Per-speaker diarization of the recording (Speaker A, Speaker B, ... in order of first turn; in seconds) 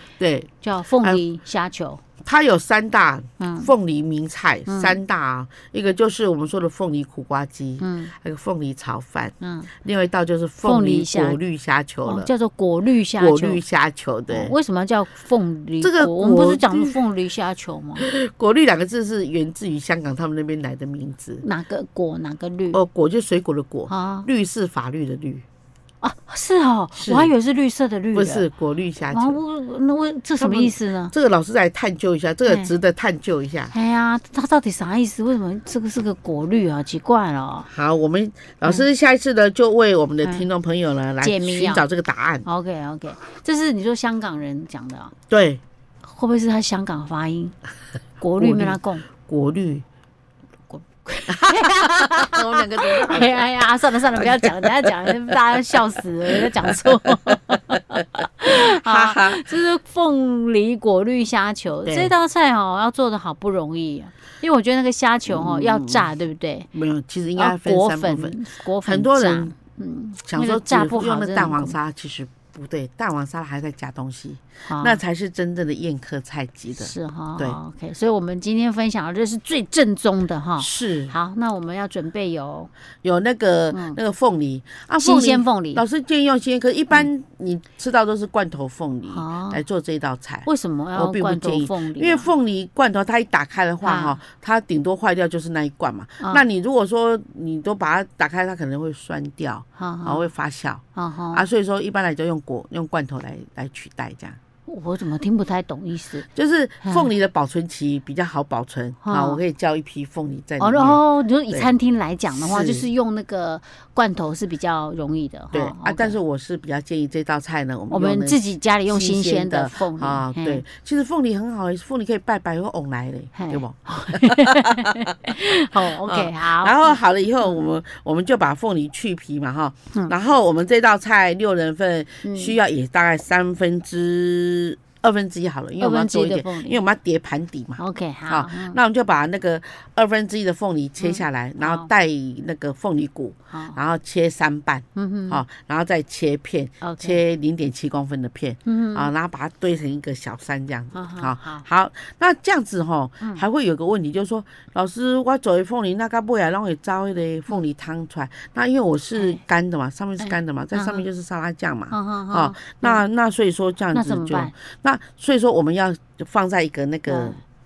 Speaker A: 0.2-1.2, 2.2-12.3, 13.2-14.5, 15.8-16.9, 18.0-21.4, 22.7-25.4, 26.9-27.3, 28.1-29.4, 30.4-33.7, 37.7-42.5, 45.3-45.6, 48.4-49.8, 51.3-53.5, 54.1-57.4, 58.5-59.4, 61.9-62.1, 65.2-66.1, 66.7-69.5, 70.2-77.6, 80.6-81.1, 83.0-104.4, 106.3-111.7, 112.3-112.9, 115.5-125.3, 125.9-167.4
Speaker B: 0.6-2.0, 3.4-3.7, 4.7-5.0, 7.8-8.1, 9.4-9.7, 10.6-11.4, 12.0-13.6, 14.3-18.0, 21.4-22.8, 23.9-24.3, 26.0-28.5, 29.1-31.1, 33.7-37.7, 41.2-41.8, 42.5-45.1, 46.0-47.5, 48.2-49.0, 50.7-66.7, 67.4-71.8, 74.7-75.0, 76.8-82.7, 83.7-84.0, 85.0-85.8, 89.1-89.6, 90.4-92.3, 93.8-94.2, 99.8-100.3, 101.0-101.4, 104.7-106.3, 106.8-107.1, 109.0-109.4, 110.6-116.2, 117.9-120.6, 123.4-127.0, 132.2-132.5, 135.8-136.8, 137.8-138.8, 141.0-141.9, 143.5-143.8, 144.9-145.4, 146.8-147.2, 148.7-149.1, 150.9-151.6, 159.2-159.4, 160.2-161.0, 161.9-163.0, 163.9-164.5, 167.1-167.4